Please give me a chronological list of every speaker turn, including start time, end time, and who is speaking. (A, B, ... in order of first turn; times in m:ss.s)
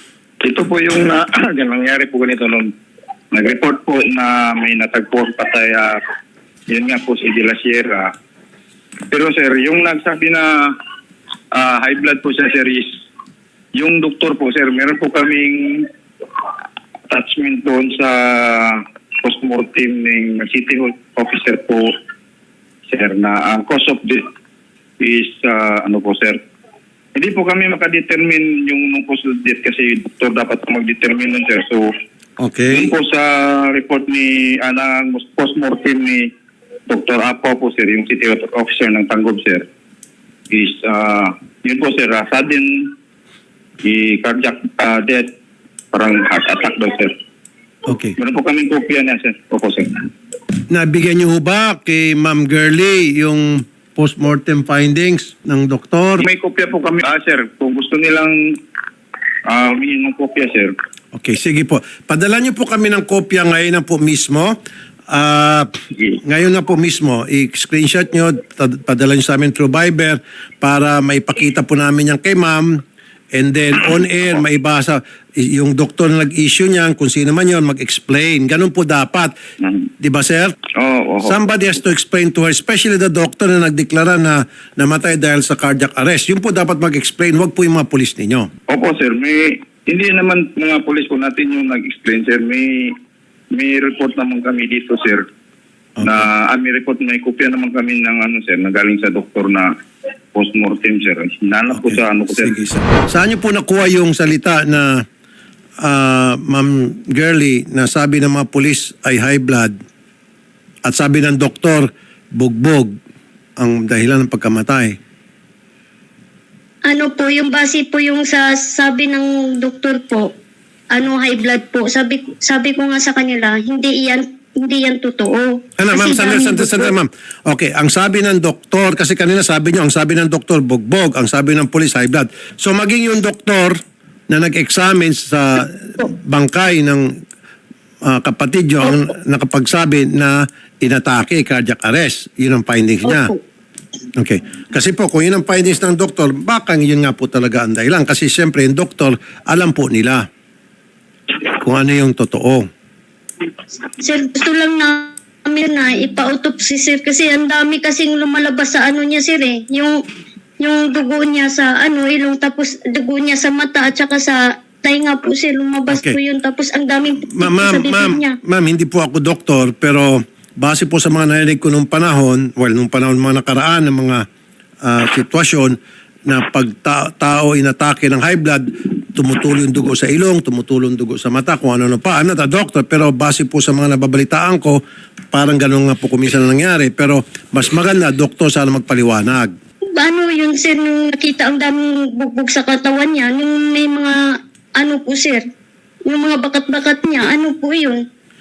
0:00.4-0:02.7 A
0:03.3-0:06.0 A
0:06.7-0:08.1 A
0:09.1-0:10.7 A
0:11.5-0:12.9 A
0:13.8-0:15.9 A
0:17.1-0:21.9 A
0:22.9-0:24.2 A
0:25.0-0:26.4 A
0:27.2-0:31.9 A
0:32.4-0:32.9 B
0:32.7-0:36.3 A
0:36.9-0:39.6 A
0:40.5-0:42.9 A
0:43.8-0:45.3 A
0:45.9-0:47.1 A
0:47.9-0:48.2 B
0:48.2-0:50.0 A
0:50.7-0:56.3 B
0:56.2-0:58.4 A
0:59.5-1:00.7 A
1:01.1-1:04.6 B
1:05.1-1:12.8 B
1:13.3-1:19.3 B
1:19.6-1:19.9 A
1:20.0-1:20.6 B
1:20.8-1:21.3 A
1:21.2-1:28.5 B
1:28.7-1:32.9 A
1:33.5-1:35.2 A
1:36.0-1:36.2 B
1:36.0-1:39.7 A
1:40.3-1:42.6 A
1:41.7-1:45.0 B
1:45.8-1:49.8 B
1:50.9-1:52.9 B
1:53.6-1:55.0 B
1:56.9-2:00.3 C
2:00.9-2:07.0 C
2:05.8-2:13.8 B
2:14.3-2:17.1 B
2:18.0-2:23.3 B
2:24.2-2:30.3 B
2:31.5-2:32.7 B
2:33.9-2:40.0 C
2:40.6-2:48.4 C
2:45.9-2:46.2 B
2:47.4-2:54.2 B
2:54.8-2:55.8 B
2:56.3-3:04.8 B
3:05.3-3:09.5 B
3:09.9-3:14.2 C
3:14.8-3:15.4 C
3:16.1-3:18.0 C